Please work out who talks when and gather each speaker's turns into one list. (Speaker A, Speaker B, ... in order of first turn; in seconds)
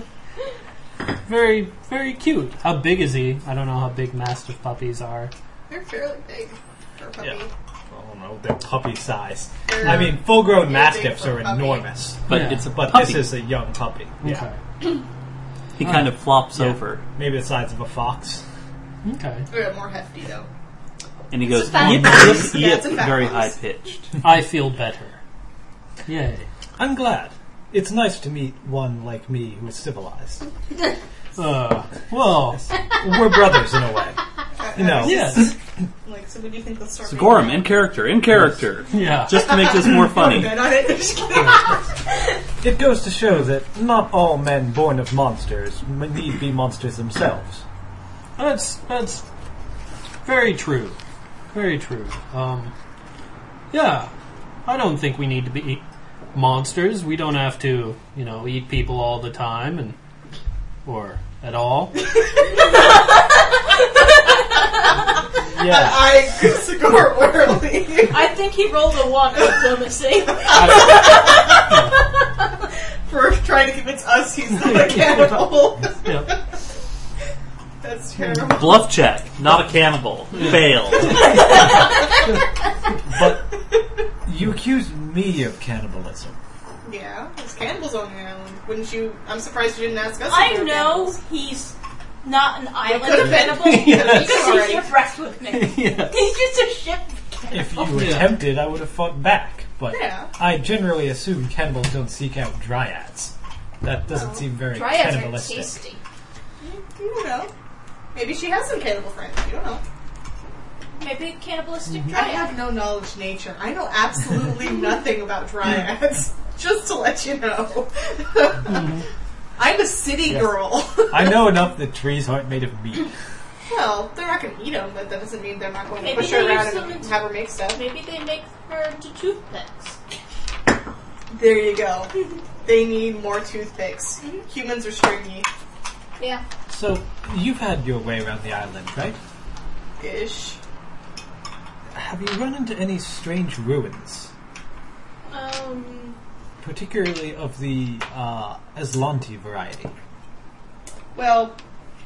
Speaker A: 1.2-5.3, 12.3-12.7, 14.2-14.6, 15.8-16.1, 19.0-19.5, 24.2-25.2, 26.1-26.4, 31.4-32.7, 35.0-35.5, 38.9-39.5, 48.4-49.2, 50.2-51.0, 51.5-52.7, 53.7-54.1, 54.6-55.8, 56.3-60.0, 60.9-62.0, 70.5-71.0, 76.0-76.3, 80.3-81.3, 93.2-94.6, 95.5-96.3, 97.9-98.4, 118.7-119.0
Speaker B: 5.7-7.5, 9.7-11.9, 19.5-20.5, 21.5-23.6, 34.6-35.5, 36.0-37.9, 39.3-41.9, 65.6-68.3, 70.5-71.6, 73.1-76.4, 77.8-78.8, 86.8-91.2, 92.8-94.9, 99.9-100.3, 104.1-104.4, 106.6-107.5, 108.1-109.8, 112.1-118.9, 119.6-121.5, 123.7-127.9, 131.3-132.1, 132.6-135.5, 140.0-140.6, 151.1-151.6
Speaker C: 7.2-14.4, 17.1-18.4, 26.8-30.5, 32.9-34.2, 34.7-35.5, 42.6-47.6, 65.5-66.1, 83.1-83.5, 84.2-86.4, 97.5-105.8, 120.3-120.6, 121.1-123.1, 136.7-139.2, 141.9-144.3, 146.6-149.9
Speaker D: 12.3-13.3, 15.8-17.0, 21.3-24.2, 37.0-40.6, 78.5-81.4
Speaker E: 21.5-22.6, 62.6-63.4, 68.1-71.8, 81.3-82.0, 90.3-98.1, 104.6-106.0, 111.0-112.6, 126.0-130.0, 136.2-136.4, 145.3-146.2